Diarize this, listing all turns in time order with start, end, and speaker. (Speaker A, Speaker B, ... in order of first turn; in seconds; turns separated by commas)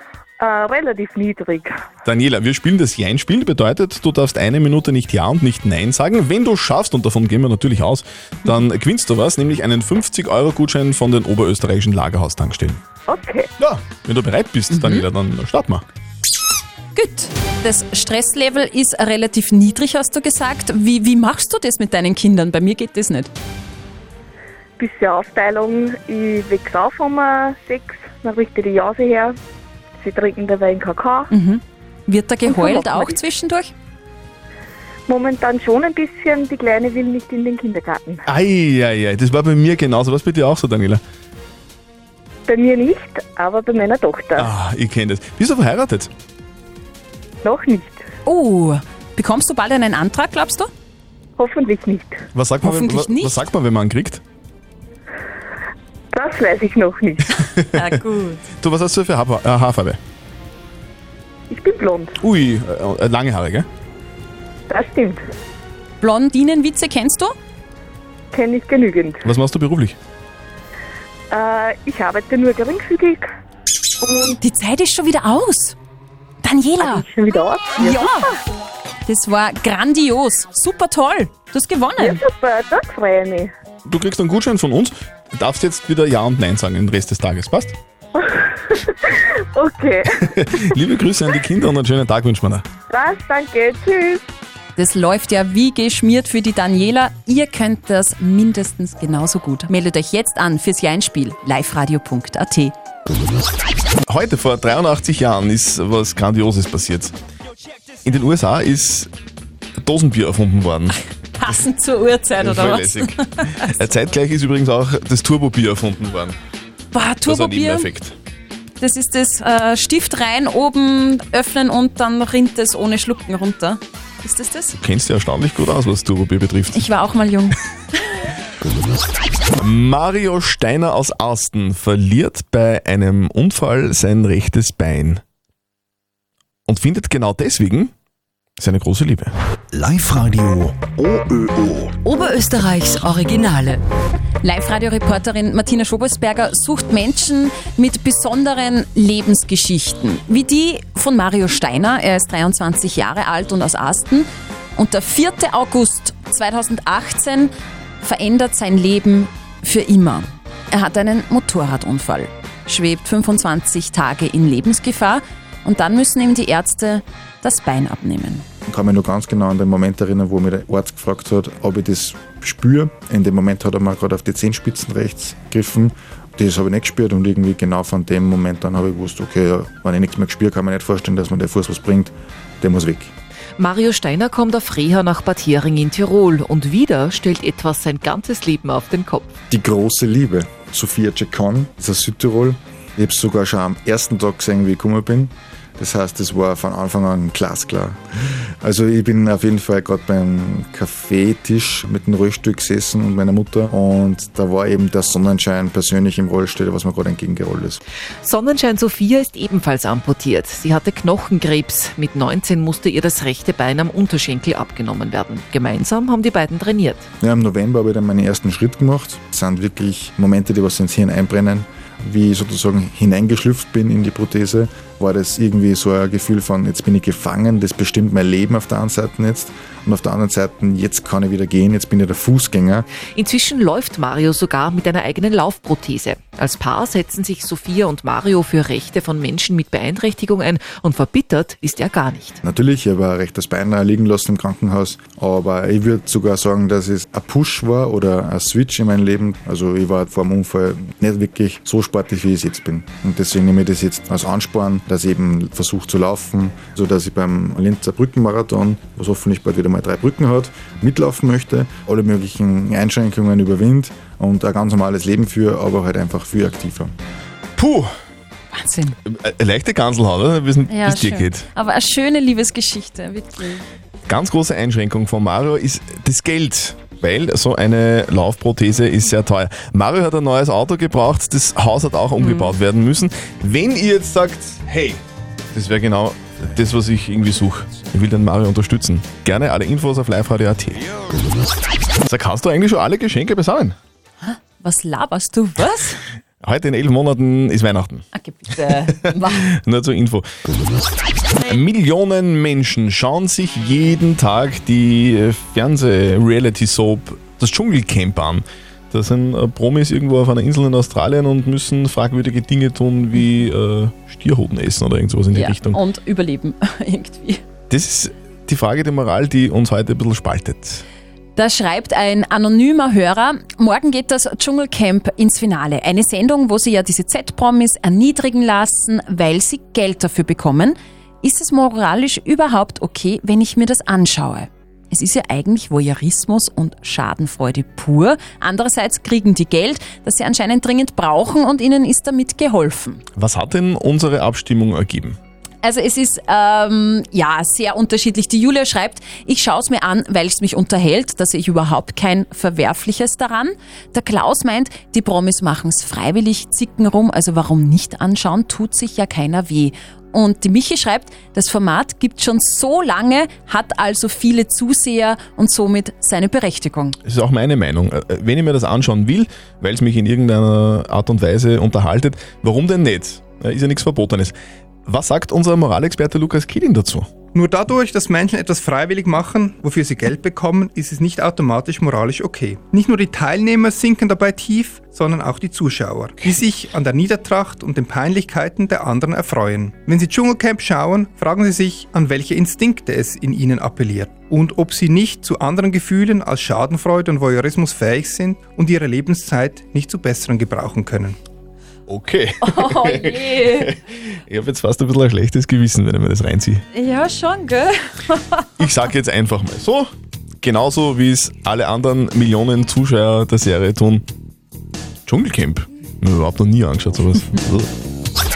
Speaker A: 0.4-1.7, Speaker B: 2.0-12.8, Speaker A: 13.1-13.5, Speaker B: 13.6-15.8, Speaker C: 14.7-15.1, Speaker C: 16.9-23.3, Speaker A: 24.8-29.3, Speaker A: 30.0-31.3, Speaker C: 31.3-33.7, Speaker A: 32.4-33.2, Speaker A: 35.1-38.2, Speaker B: 38.2-41.0, Speaker A: 42.5-44.5, Speaker B: 44.4-46.1, Speaker A: 47.4-48.0, Speaker C: 48.2-50.7, Speaker A: 51.4-52.2, Speaker B: 52.3-54.2, Speaker C: 52.6-53.4, Speaker A: 56.1-57.4, Speaker C: 57.7-58.4, Speaker B: 58.6-60.0, Speaker A: 61.5-62.1, Speaker B: 62.2-63.7, Speaker A: 64.7-65.2, Speaker C: 66.0-67.3, Speaker A: 68.3-69.2, Speaker B: 69.2-70.0, Speaker A: 71.3-73.3, Speaker A: 74.0-74.3, Speaker C: 74.4-75.8, Speaker C: 76.4-77.0, Speaker A: 76.8-78.3, Speaker C: 77.8-78.2, Speaker C: 79.0-82.2, Speaker A: 82.0-83.5, Speaker B: 83.8-87.7, Speaker A: 88.2-90.5, Speaker B: 90.2-92.6, Speaker A: 92.9-94.2, Speaker C: 94.8-102.7, Speaker B: 104.1-107.1, Speaker B: 108.0-109.1, Speaker B: 109.8-111.0, Speaker C: 111.4-113.7, Speaker B: 112.3-116.4, Speaker C: 116.9-117.9, Speaker B: 117.2-118.1, Speaker C: 118.8-124.8, Speaker B: 124.8-126.8, Speaker C: 126.7-128.1, Speaker B: 129.6-135.2, Speaker B: 136.7-137.9, Speaker B: 138.6-139.3, Speaker D: 139.7-141.9, Speaker E: 142.1-143.8, Speaker C: 144.4-168.4, Speaker F: 168.7-183.1, Speaker E: 183.6-189.3, Speaker F: 189.5-198.0, Speaker F: 198.6-207.8, Speaker E: 208.2-217.0, Speaker F: 217.2-232.8, Speaker E: 233.1-242.4, Speaker F: 242.4-266.9, Speaker B: 267.6-267.9, Speaker C: 268.5-268.9, Speaker B: 269.1-271.4, Speaker C: 270.7-273.6, Speaker B: 274.1-285.0, Speaker C: 282.2-282.6, Speaker B: 285.5-290.9, Speaker B: 292.1-293.8, Speaker C: 294.2-296.0, Speaker B: 296.4-298.0, Speaker C: 298.1-299.5, Speaker B: 299.0-300.2, Speaker B: 301.4-315.8, Speaker C: 315.3-317.4, Speaker B: 317.7-320.8, Speaker C: 321.4-343.0, Speaker B: 343.1-345.2, Speaker C: 345.6-367.0, Speaker B: 367.0-374.3, Speaker B: 374.9-377.1, Speaker G: 377.3-401.2, Speaker B: 401.9-406.6, Speaker C: 402.4-403.7, Speaker C: 406.7-408.6, Speaker B: 408.6-409.9, Speaker B: 410.4-414.0, Speaker B: 415.1-417.7